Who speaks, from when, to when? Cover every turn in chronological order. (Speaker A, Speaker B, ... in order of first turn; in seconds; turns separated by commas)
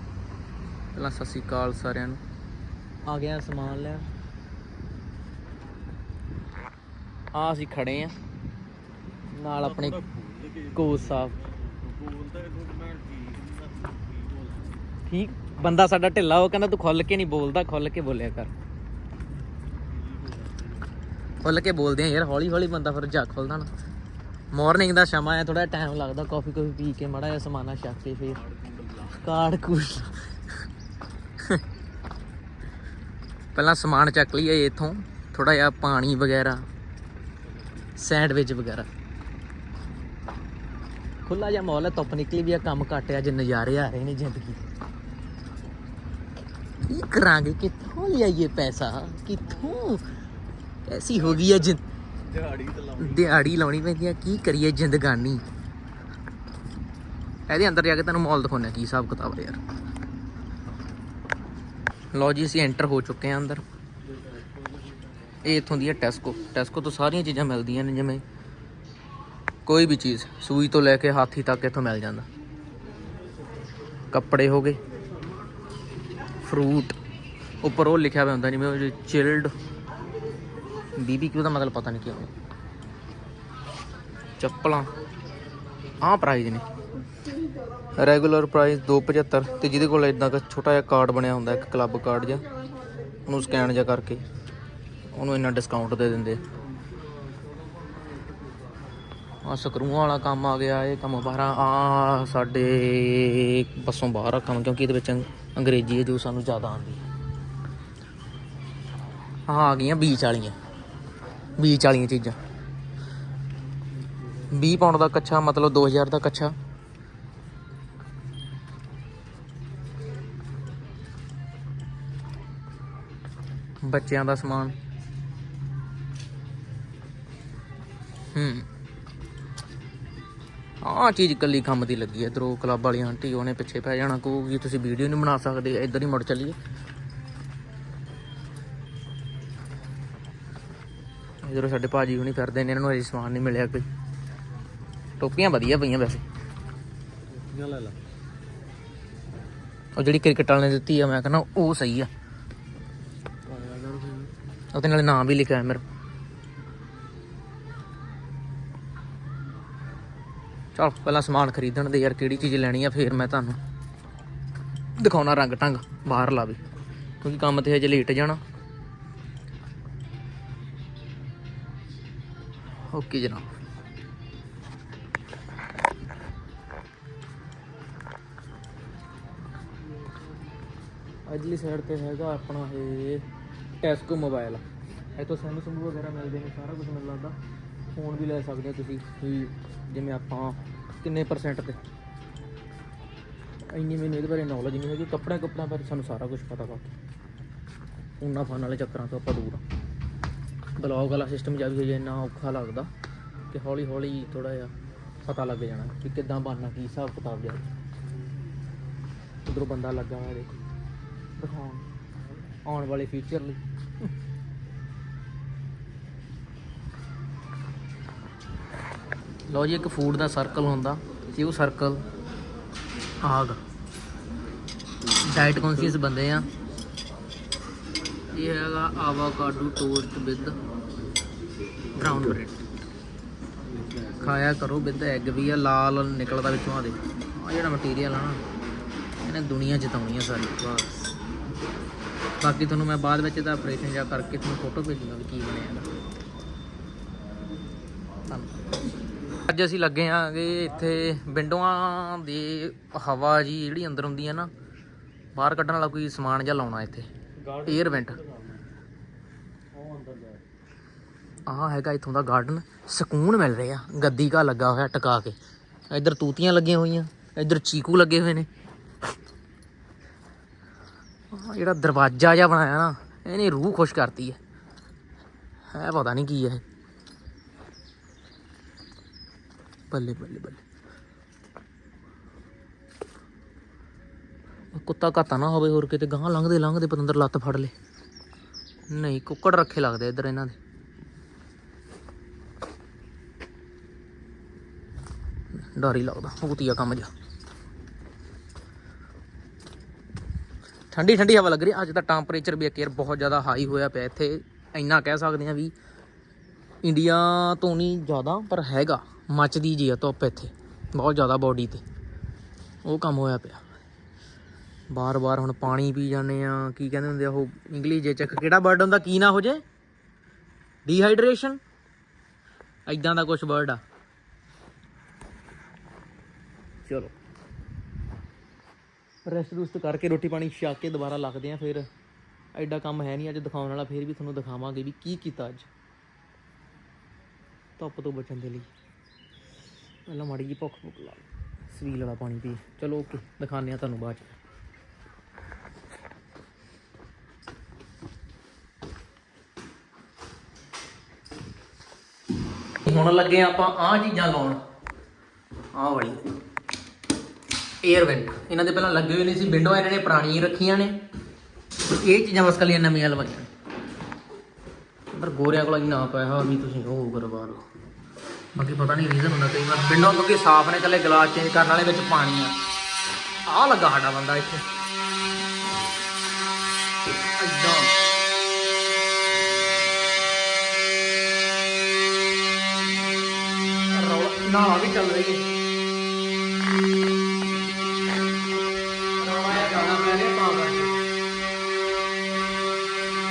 Speaker A: 0.9-2.2, Speaker A: 3.1-4.1, Speaker A: 7.3-8.1, Speaker A: 9.3-10.0, Speaker B: 9.6-14.8, Speaker A: 10.7-11.3, Speaker A: 15.1-18.5, Speaker B: 19.9-20.8, Speaker A: 21.4-23.7, Speaker A: 24.5-28.4, Speaker B: 28.4-29.1, Speaker A: 29.1-30.3, Speaker A: 33.5-36.6, Speaker A: 38.0-38.9, Speaker A: 41.2-44.6, Speaker A: 46.9-50.1, Speaker A: 50.9-51.8, Speaker B: 52.3-53.1, Speaker A: 53.0-55.4, Speaker A: 57.5-59.6, Speaker A: 62.1-63.6, Speaker A: 65.4-68.2, Speaker A: 69.7-72.3, Speaker A: 74.1-74.8, Speaker A: 76.4-76.9, Speaker A: 77.6-79.5, Speaker A: 81.0-82.3, Speaker A: 84.4-84.9, Speaker A: 86.0-86.6, Speaker A: 88.0-92.5, Speaker A: 93.2-94.2, Speaker A: 95.1-96.4, Speaker A: 99.4-107.0, Speaker A: 109.5-110.6, Speaker A: 111.6-112.4, Speaker A: 114.5-116.5, Speaker A: 123.8-124.8, Speaker A: 128.3-128.7, Speaker A: 130.8-136.6, Speaker A: 141.4-143.9, Speaker A: 145.2-146.2, Speaker B: 147.3-148.0, Speaker A: 149.9-152.1, Speaker B: 153.5-154.3, Speaker A: 154.7-155.8, Speaker A: 160.7-163.6, Speaker A: 165.0-166.6, Speaker A: 167.2-168.4, Speaker A: 172.9-173.4, Speaker A: 181.3-183.3, Speaker A: 183.8-184.6, Speaker A: 185.2-187.4, Speaker A: 187.9-191.8, Speaker A: 193.7-196.9, Speaker A: 198.2-199.6, Speaker A: 200.8-202.9, Speaker A: 203.5-204.7, Speaker A: 205.2-207.7, Speaker A: 209.4-210.5, Speaker A: 211.4-211.9, Speaker A: 212.7-213.6, Speaker A: 219.5-222.0, Speaker A: 223.2-223.6, Speaker A: 225.1-226.5, Speaker A: 228.3-230.6, Speaker A: 231.9-232.7, Speaker A: 234.2-238.4, Speaker A: 239.2-241.1, Speaker A: 242.4-245.9, Speaker A: 248.3-248.5, Speaker A: 249.4-254.5, Speaker A: 255.3-257.1, Speaker B: 257.4-258.6, Speaker A: 257.6-258.2, Speaker B: 259.7-260.4, Speaker A: 261.4-265.4, Speaker A: 265.9-268.5, Speaker A: 271.3-274.4, Speaker A: 275.7-276.6, Speaker A: 279.9-280.6, Speaker A: 284.7-287.7, Speaker A: 288.9-290.6, Speaker A: 295.6-297.1, Speaker A: 300.9-305.7, Speaker A: 306.8-311.8, Speaker A: 312.8-313.6, Speaker A: 314.9-319.6, Speaker A: 320.9-321.6, Speaker A: 322.9-323.8, Speaker A: 326.9-327.1, Speaker A: 329.2-331.9, Speaker A: 332.5-335.7, Speaker A: 337.8-338.7, Speaker A: 340.1-344.3, Speaker A: 352.8-354.6, Speaker A: 355.7-356.2, Speaker A: 357.8-360.9, Speaker A: 361.9-363.5, Speaker A: 365.1-367.6, Speaker A: 368.5-372.5, Speaker A: 373.5-374.6, Speaker A: 377.4-377.9, Speaker A: 383.9-385.4, Speaker A: 389.2-391.0